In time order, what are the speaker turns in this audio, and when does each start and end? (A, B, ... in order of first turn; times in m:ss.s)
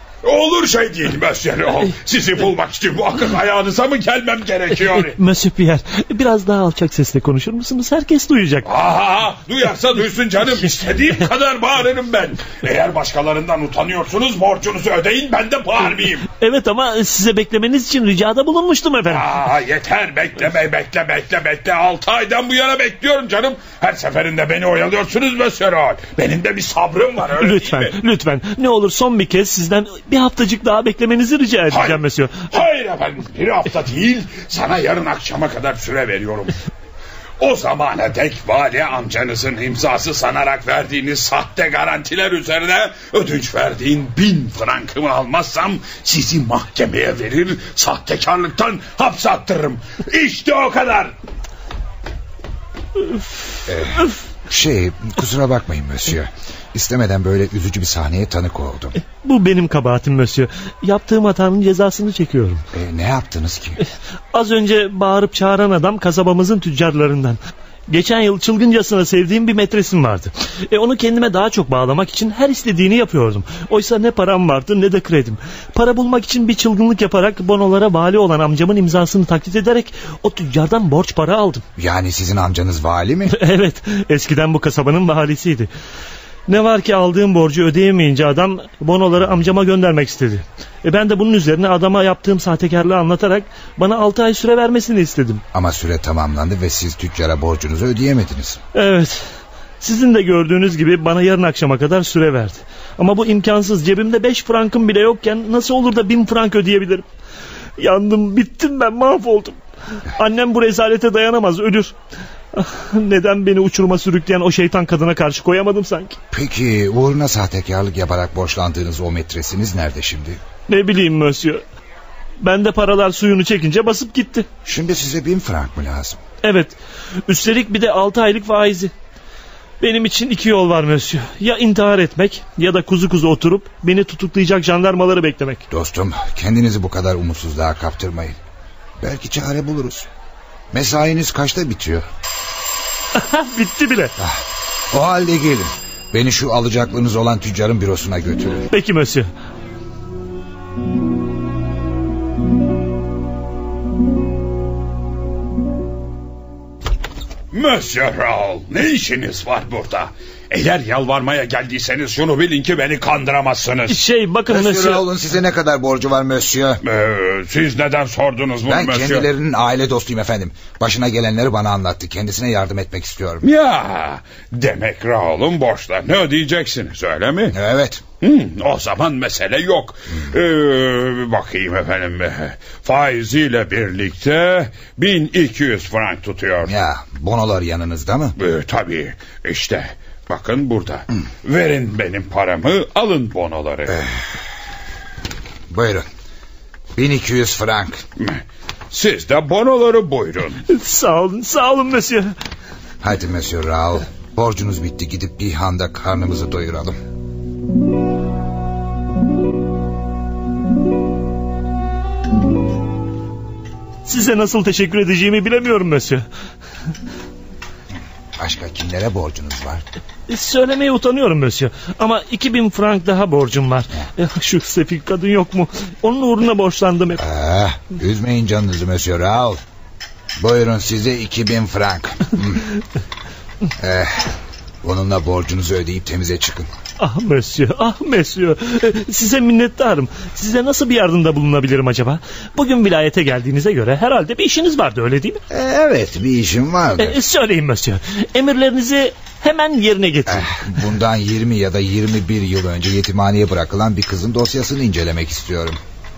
0:00.2-0:05.2 A
0:05.1-0:08.7 B
0:08.6-0:16.2 A
0:16.4-0:19.2 B
0:19.0-0:28.0 A
0:27.4-0:32.4 B
0:31.7-0:36.5 A
0:37.4-0:51.1 A
0:53.7-0:59.0 C
0:59.2-1:02.6 B
1:02.7-1:03.8 C
1:04.3-1:21.6 B
1:21.8-1:23.3 C
1:23.3-1:25.7 B
1:26.5-1:35.4 B
1:35.5-1:38.6 C
1:38.7-1:39.3 B
1:39.8-1:47.0 B
1:47.8-1:49.6 B
1:50.1-1:51.9 B
1:52.5-1:56.2 B
1:56.3-2:00.4 C
2:00.7-2:01.6 B
2:02.4-2:04.5 B
2:04.6-2:06.2 C
2:06.4-2:08.9 B
2:09.8-2:15.6 B
2:15.7-2:18.4 C
2:19.0-2:20.1 C
2:20.7-2:22.0 C
2:23.1-2:24.1 B
2:24.2-2:28.7 C
2:28.7-2:29.3 B
2:37.5-2:44.0 A
2:43.9-2:45.0 B
2:44.5-2:46.8 C
2:46.8-2:49.3 A
2:48.7-2:53.4 C
2:53.4-2:57.5 A
2:57.5-2:58.0 C
2:58.2-3:06.7 A
3:06.6-3:08.3 C
3:08.4-3:14.0 A
3:15.7-3:16.0 C
3:16.9-3:18.0 C
3:18.9-3:20.6 A
3:20.7-3:22.3 B
3:23.0-3:27.0 C
3:34.0-3:36.2 B
3:38.4-3:39.8 C
3:40.3-3:47.2 B
3:47.2-3:49.6 C
3:50.4-3:52.7 C
3:53.8-3:56.7 C
3:57.0-4:05.4 B
4:05.5-4:07.2 C
4:07.0-4:10.5 B
4:10.2-4:15.8 C